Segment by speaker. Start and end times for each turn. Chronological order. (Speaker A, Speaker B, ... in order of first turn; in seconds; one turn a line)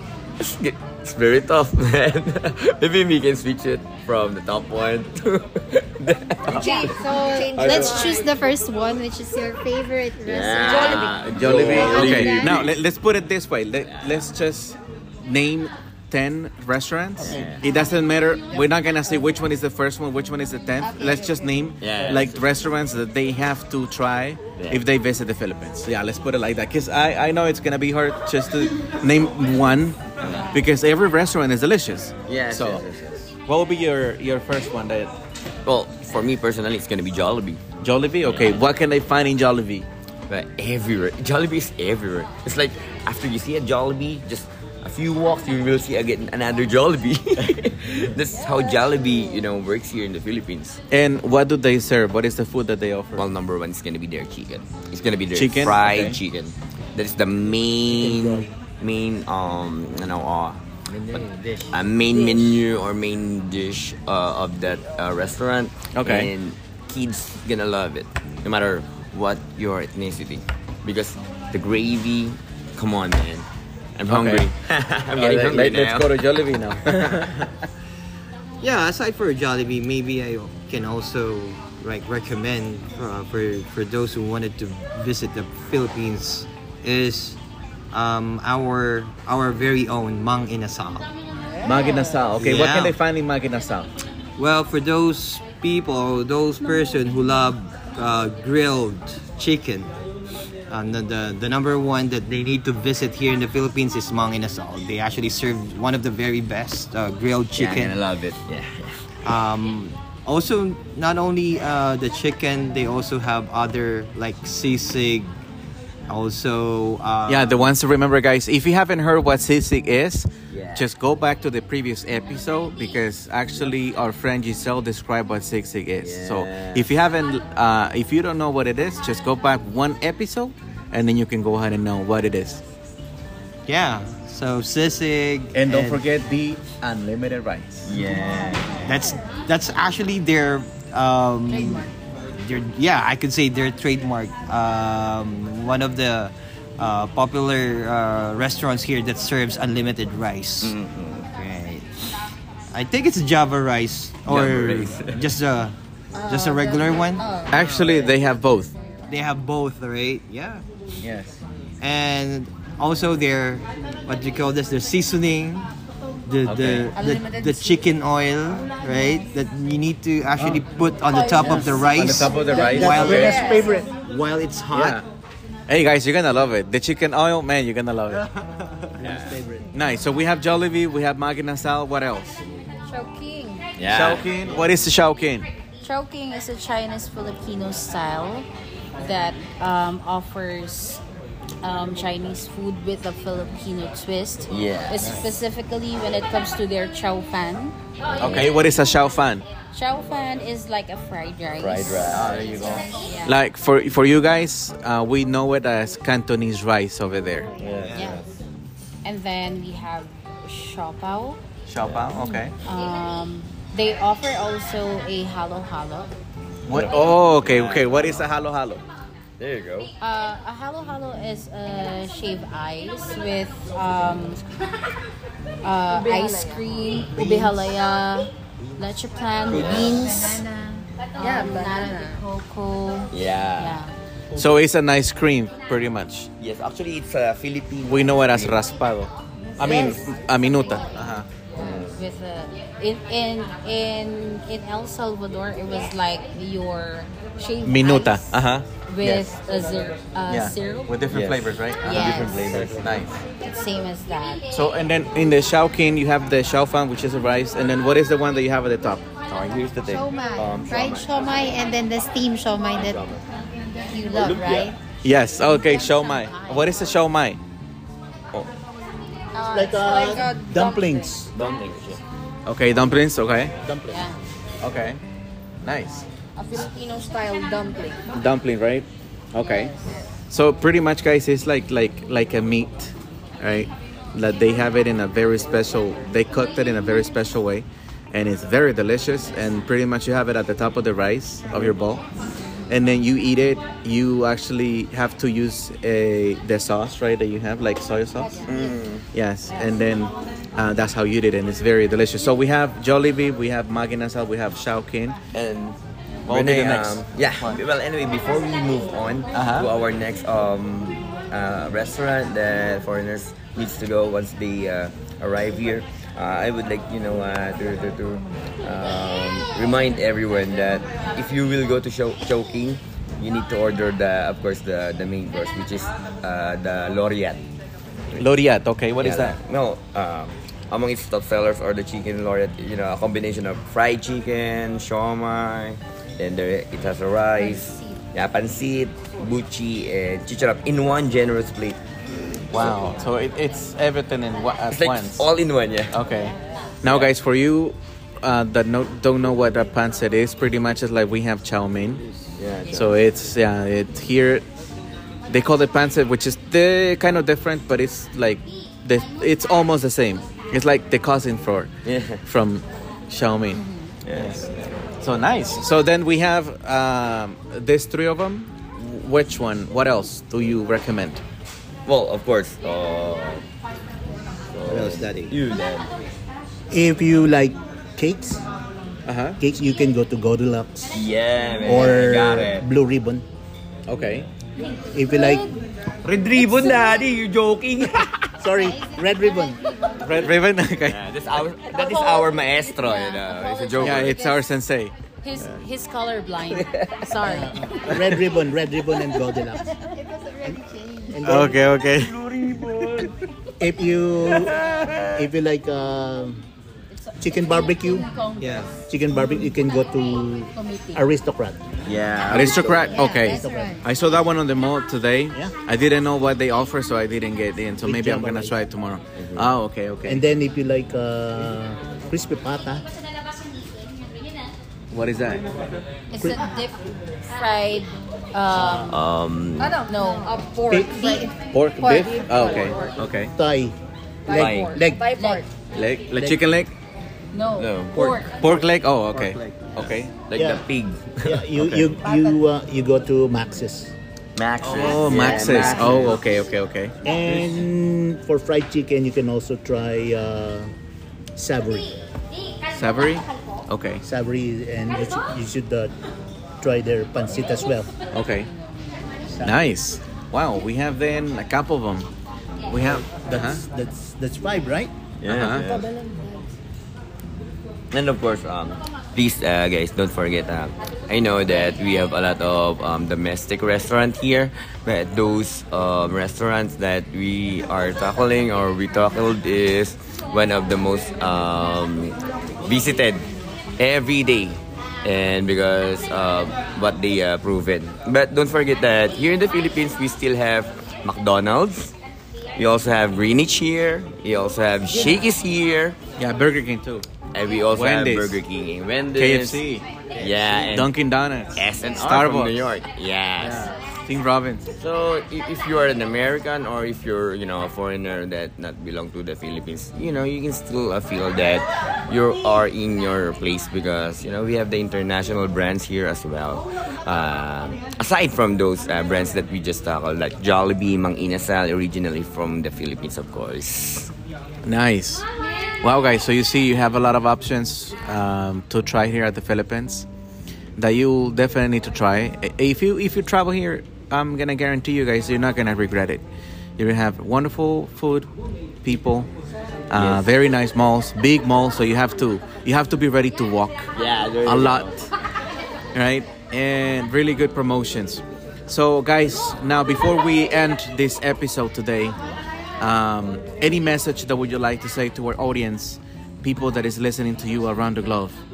Speaker A: 0.4-8.1
Speaker B: 6.5-8.3
Speaker C: 6.5-12.6
Speaker A: 10.2-12.7
Speaker B: 10.6-11.1
Speaker D: 11.3-32.8
Speaker A: 13.9-14.1
Speaker A: 17.2-17.6
Speaker B: 20.9-21.4
Speaker A: 21.8-22.4
Speaker A: 24.6-24.8
Speaker A: 30.2-30.6
Speaker A: 32.2-33.3
Speaker D: 33.5-35.1
Speaker A: 35.6-37.6
Speaker D: 37.8-39.9
Speaker A: 38.2-38.6
Speaker A: 40.3-50.8
Speaker D: 50.9-53.2
Speaker A: 53.1-73.5
Speaker D: 55.3-56.2
Speaker E: 60.9-61.8
Speaker D: 65.9-66.3
Speaker A: 74.0-76.1
Speaker D: 74.1-74.5
Speaker D: 75.1-77.5
Speaker E: 78.6-87.4
Speaker E: 87.9-91.1
Speaker D: 91.6-93.9
Speaker E: 92.4-92.9
Speaker E: 94.4-99.9
Speaker E: 100.7-108.0
Speaker A: 107.5-109.1
Speaker E: 109.2-115.3
Speaker E: 116.1-117.7
Speaker D: 117.3-132.6
Speaker A: 120.5-120.9
Speaker A: 126.0-126.9
Speaker E: 133.7-136.0
Speaker D: 135.5-137.9
Speaker A: 137.8-139.1
Speaker E: 138.8-150.7
Speaker F: 141.5-141.9
Speaker A: 150.6-151.6
Speaker E: 151.4-151.8
Speaker E: 152.7-155.7
Speaker A: 154.3-155.2
Speaker B: 156.1-158.2
Speaker E: 156.2-158.0
Speaker D: 157.5-158.7
Speaker E: 159.1-160.6
Speaker A: 161.0-161.4
Speaker E: 161.8-165.7
Speaker E: 166.3-175.0
Speaker A: 166.6-166.8
Speaker B: 166.9-167.8
Speaker B: 171.1-173.9
Speaker G: 171.3-171.8
Speaker D: 171.9-173.3
Speaker G: 172.5-173.9
Speaker D: 174.7-175.0
Speaker D: 175.7-178.3
Speaker G: 179.0-179.7
Speaker A: 179.0-179.3
Speaker D: 179.7-182.4
Speaker F: 182.9-183.6
Speaker A: 183.8-184.6
Speaker D: 183.9-185.5
Speaker F: 185.8-188.5
Speaker F: 189.0-191.0
Speaker F: 191.6-197.8
Speaker A: 194.5-195.2
Speaker A: 198.1-198.5
Speaker D: 198.2-199.4
Speaker F: 199.7-203.4
Speaker A: 201.6-202.9
Speaker D: 203.2-207.5
Speaker A: 207.6-208.3
Speaker E: 207.7-208.2
Speaker F: 207.9-208.2
Speaker F: 209.0-211.4
Speaker D: 211.7-212.5
Speaker A: 211.8-212.1
Speaker F: 212.6-216.1
Speaker D: 216.7-218.8
Speaker A: 216.7-218.2
Speaker A: 219.4-219.9
Speaker F: 220.0-224.4
Speaker F: 225.6-230.4
Speaker B: 225.9-226.8
Speaker A: 229.5-230.1
Speaker C: 229.6-230.8
Speaker F: 231.2-233.9
Speaker B: 231.2-232.2
Speaker A: 233.1-233.8
Speaker D: 234.3-236.3
Speaker A: 236.4-238.6
Speaker D: 237.8-241.3
Speaker F: 239.6-239.9
Speaker C: 239.6-239.9
Speaker A: 241.6-242.0
Speaker F: 241.6-251.0
Speaker D: 247.6-248.7
Speaker D: 250.3-253.1
Speaker A: 251.1-253.2
Speaker F: 251.8-252.6
Speaker F: 253.4-254.4
Speaker D: 254.5-259.0
Speaker A: 259.3-261.6
Speaker C: 259.8-263.0
Speaker A: 262.8-263.2
Speaker C: 263.9-264.8
Speaker A: 264.0-264.7
Speaker D: 265.0-267.4
Speaker F: 265.4-266.8
Speaker F: 269.3-270.2
Speaker B: 269.4-271.3
Speaker G: 269.5-271.3
Speaker A: 271.3-272.0
Speaker D: 272.4-273.5
Speaker G: 273.6-274.0
Speaker F: 273.9-274.2
Speaker D: 274.6-275.0
Speaker D: 275.6-276.0
Speaker B: 276.4-278.0
Speaker D: 278.1-279.7
Speaker F: 279.4-279.9
Speaker D: 280.3-292.0
Speaker D: 292.7-298.4
Speaker A: 298.4-299.1
Speaker D: 299.1-305.2
Speaker A: 305.3-327.4
Speaker D: 306.3-307.6
Speaker D: 309.3-309.7
Speaker D: 328.2-329.4
Speaker A: 329.0-341.8
Speaker D: 342.5-345.2
Speaker A: 344.7-346.0
Speaker D: 345.9-352.0
Speaker A: 346.8-347.1
Speaker A: 352.4-353.0
Speaker D: 352.7-354.4
Speaker D: 355.3-361.7
Speaker A: 361.8-362.2
Speaker D: 362.2-363.6
Speaker F: 363.6-363.8
Speaker A: 364.0-364.9
Speaker D: 364.1-371.2
Speaker A: 371.9-373.4
Speaker A: 374.5-375.9
Speaker E: 374.6-375.4
Speaker G: 376.7-378.4
Speaker D: 379.1-379.4
Speaker G: 379.4-380.9
Speaker A: 380.9-382.6
Speaker G: 381.6-383.2
Speaker D: 383.9-384.3
Speaker G: 384.9-385.5
Speaker A: 386.0-388.2
Speaker G: 388.4-389.6
Speaker C: 388.5-390.4
Speaker D: 390.0-391.0
Speaker A: 390.8-394.2
Speaker F: 391.7-394.4
Speaker D: 393.8-394.9
Speaker F: 395.2-397.7
Speaker A: 396.6-397.0
Speaker G: 397.2-399.7
Speaker C: 399.8-401.2
Speaker G: 401.1-401.6
Speaker D: 401.2-402.1
Speaker A: 402.0-403.1
Speaker G: 403.6-404.6
Speaker A: 404.3-405.3
Speaker G: 405.1-406.4
Speaker F: 406.9-408.8
Speaker G: 407.2-408.1
Speaker E: 408.4-408.7
Speaker G: 408.9-411.6
Speaker F: 410.5-411.0
Speaker A: 411.9-412.9
Speaker D: 412.3-420.2
Speaker G: 412.3-413.8
Speaker C: 412.9-413.8
Speaker G: 417.8-418.6
Speaker A: 419.1-419.5
Speaker G: 420.1-422.8
Speaker D: 424.9-425.4
Speaker F: 426.1-428.9
Speaker G: 428.5-428.9
Speaker A: 428.9-429.8
Speaker B: 429.6-433.0
Speaker F: 429.9-430.3
Speaker C: 430.9-431.3
Speaker D: 431.5-433.3
Speaker G: 433.4-433.8
Speaker B: 434.2-435.5
Speaker G: 434.3-435.0
Speaker A: 434.3-434.8
Speaker F: 435.2-435.4
Speaker D: 435.7-436.7
Speaker G: 436.1-436.4
Speaker F: 437.3-438.4
Speaker A: 437.6-438.0
Speaker E: 437.9-439.9
Speaker D: 438.4-440.1
Speaker A: 440.3-441.4
Speaker G: 440.3-440.6
Speaker G: 441.2-443.9
Speaker D: 441.5-442.0
Speaker A: 444.4-446.2
Speaker D: 444.6-446.9
Speaker G: 444.7-446.1
Speaker G: 447.0-450.7
Speaker G: 451.4-451.9
Speaker D: 452.7-454.0
Speaker G: 454.0-455.9
Speaker G: 456.6-457.9
Speaker D: 458.1-458.5
Speaker G: 459.3-459.6
Speaker D: 459.4-462.1
Speaker D: 462.7-463.6
Speaker G: 463.1-464.9
Speaker A: 465.2-465.9
Speaker D: 465.2-465.7
Speaker A: 467.9-483.3
Speaker A: 483.8-491.9
Speaker A: 492.6-496.0
Speaker D: 496.2-497.1
Speaker A: 497.3-499.6
Speaker D: 497.7-498.4
Speaker D: 499.1-499.9
Speaker A: 500.2-500.9
Speaker D: 500.5-502.7
Speaker A: 501.5-503.7
Speaker D: 503.4-504.7
Speaker A: 504.8-524.1
Speaker D: 524.6-525.2
Speaker D: 525.8-530.0
Speaker D: 530.8-536.2
Speaker D: 536.8-538.3
Speaker D: 538.8-539.3
Speaker D: 539.9-543.9
Speaker A: 539.9-540.2
Speaker A: 543.9-545.0
Speaker D: 544.4-545.1
Speaker D: 545.9-552.1
Speaker D: 552.8-558.4